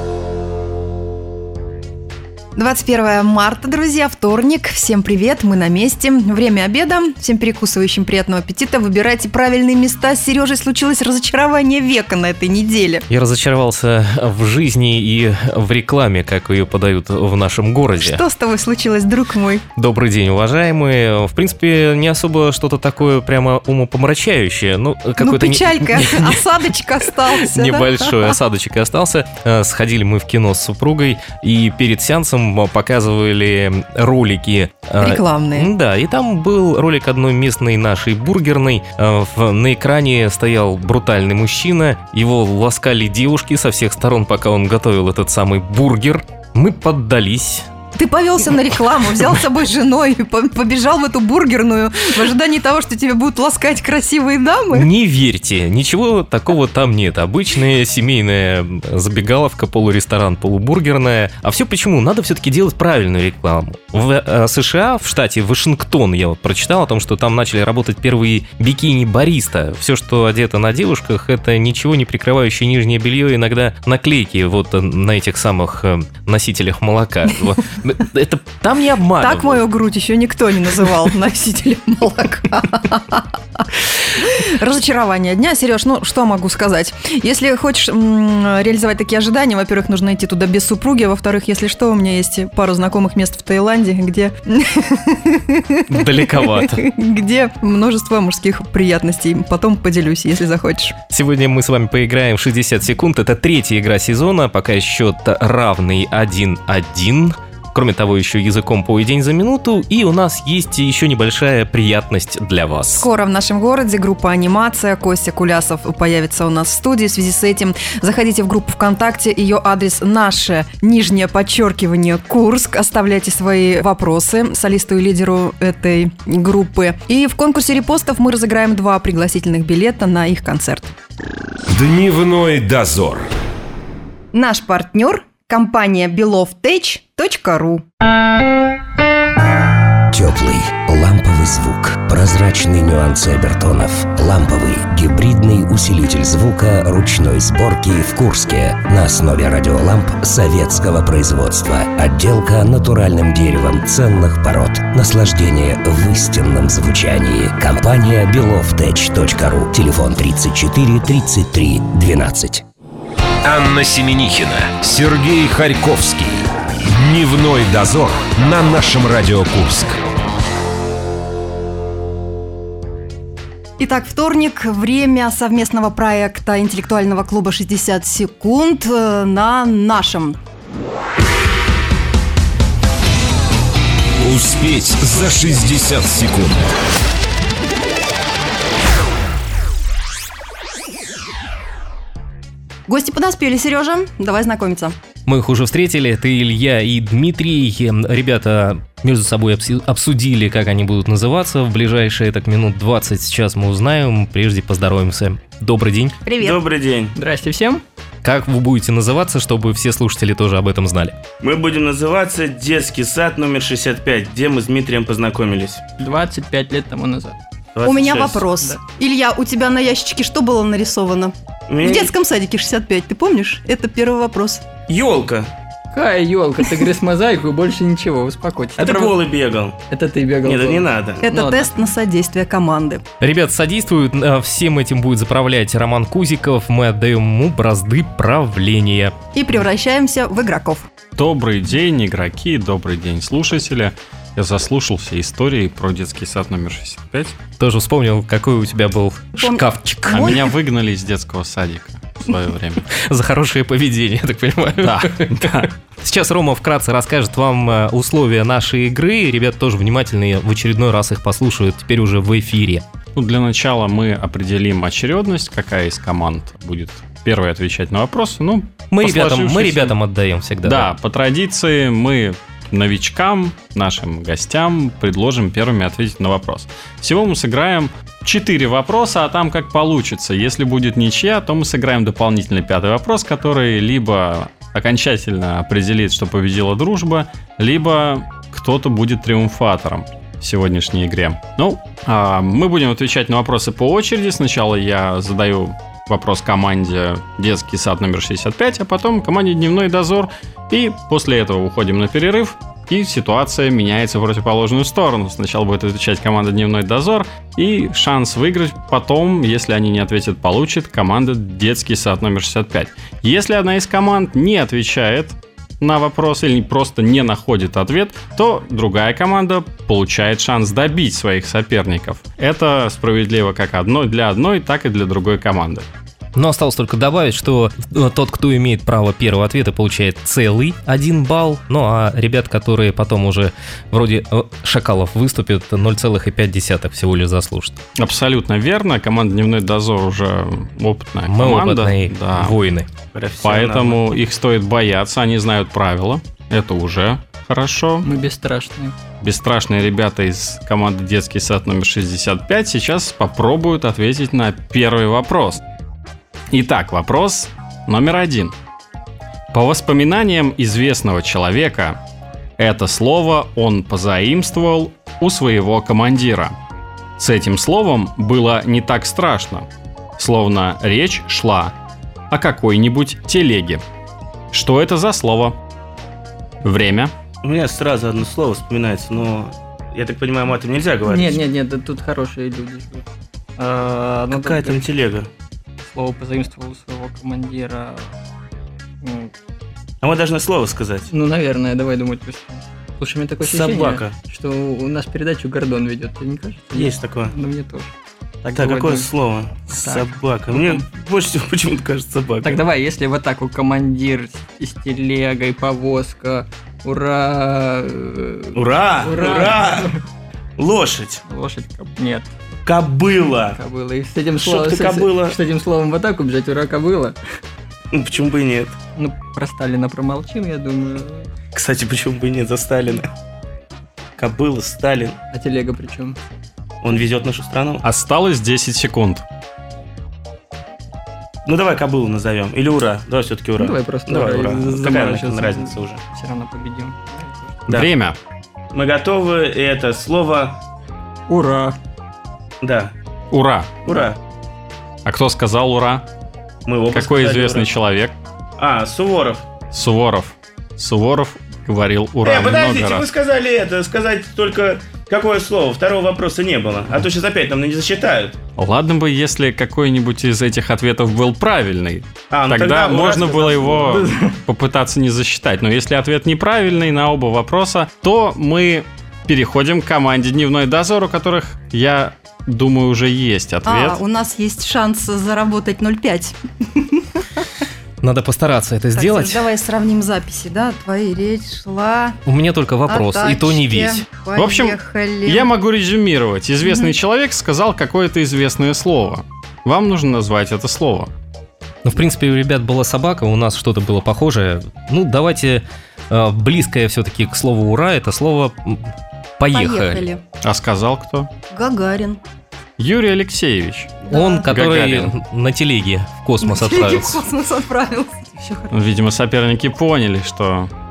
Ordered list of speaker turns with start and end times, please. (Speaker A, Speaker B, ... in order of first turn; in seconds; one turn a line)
Speaker A: 2.5-13.0
Speaker B: 13.1-18.2
Speaker A: 18.0-19.6
Speaker B: 19.8-26.4
Speaker A: 25.2-28.4
Speaker B: 27.3-47.7
Speaker A: 35.0-35.7
Speaker A: 48.0-54.9
Speaker B: 54.7-79.7
Speaker A: 79.2-101.0
Speaker B: 95.9-96.9
Speaker B: 101.1-113.1
Speaker A: 113.0-130.9
Speaker C: 131.7-133.3
Speaker A: 134.3-137.8
Speaker D: 140.1-162.7
Speaker C: 163.4-170.0
Speaker A: 173.8-180.4
Speaker C: 184.2-186.6
Speaker A: 192.9-194.9
Speaker B: 195.3-206.2
Speaker A: 206.2-206.6
Speaker E: 206.4-207.2
Speaker F: 207.1-207.8
Speaker B: 208.2-211.2
Speaker E: 211.4-215.8
Speaker F: 216.0-217.4
Speaker E: 217.8-218.5
Speaker A: 217.8-224.6
Speaker E: 221.7-222.1
Speaker E: 224.9-225.5
Speaker F: 225.9-229.2
Speaker E: 228.8-229.8
Speaker F: 229.9-231.7
Speaker E: 230.4-231.2
Speaker A: 231.2-233.0
Speaker B: 233.2-239.2
Speaker A: 239.3-240.9
Speaker G: 241.2-247.3
Speaker B: 247.6-250.4
Speaker A: 249.4-250.5
Speaker G: 250.1-252.8
Speaker B: 252.9-262.9
Speaker G: 254.8-255.7
Speaker G: 263.2-270.0
Speaker B: 268.9-270.9
Speaker G: 270.6-325.9
Speaker B: 326.4-337.8
Speaker G: 338.0-342.6
Speaker B: 341.3-342.9
Speaker E: 343.1-344.0
Speaker G: 343.4-348.1
Speaker F: 348.0-349.0
Speaker G: 349.2-355.6
Speaker G: 356.5-358.6
Speaker G: 359.5-362.0
Speaker G: 362.6-366.6
Speaker G: 367.2-369.7
Speaker G: 370.2-371.8
Speaker G: 372.3-373.8
Speaker G: 374.5-375.6
Speaker G: 376.6-377.1
Speaker E: 377.4-381.4
Speaker F: 381.0-383.1
Speaker F: 383.6-384.9
Speaker E: 384.3-385.3
Speaker F: 385.8-388.1
Speaker F: 389.0-389.3
Speaker E: 390.0-391.1
Speaker F: 391.1-397.9
Speaker E: 393.4-394.2
Speaker E: 396.7-397.3
Speaker F: 398.4-399.1
Speaker E: 398.6-402.6
Speaker F: 399.7-400.9
Speaker F: 402.4-410.0
Speaker E: 408.5-409.9
Speaker E: 410.6-411.2
Speaker F: 411.3-412.3
Speaker E: 412.7-413.6
Speaker F: 413.5-417.2
Speaker E: 414.4-415.4
Speaker E: 417.9-418.8
Speaker F: 419.0-421.3
Speaker E: 421.5-423.1
Speaker E: 424.2-425.2
Speaker F: 425.3-426.2
Speaker E: 426.8-427.8
Speaker G: 427.8-429.2
Speaker E: 431.4-436.0
Speaker F: 433.6-437.7
Speaker G: 437.7-438.2
Speaker E: 438.7-440.6
Speaker F: 441.3-441.8
Speaker E: 442.6-442.9
Speaker G: 443.3-443.8
Speaker E: 443.9-444.2
Speaker G: 445.1-446.1
Speaker E: 446.7-447.7
Speaker G: 446.9-448.1
Speaker E: 448.6-449.4
Speaker G: 449.7-453.1
Speaker E: 452.2-458.4
Speaker G: 458.6-474.0
Speaker E: 462.3-464.0
Speaker F: 463.8-464.4
Speaker A: 473.7-477.4
Speaker B: 478.0-479.4
Speaker A: 479.0-482.2
Speaker B: 482.3-484.1
Speaker A: 482.9-485.5
Speaker G: 484.4-491.1
Speaker A: 486.6-486.9
Speaker B: 491.9-500.1
Speaker A: 499.5-500.2
Speaker G: 500.4-501.3
Speaker A: 501.5-502.2
Speaker G: 502.8-505.1
Speaker A: 504.1-504.5
Speaker B: 504.1-507.2
Speaker A: 506.4-508.7
Speaker G: 508.7-510.7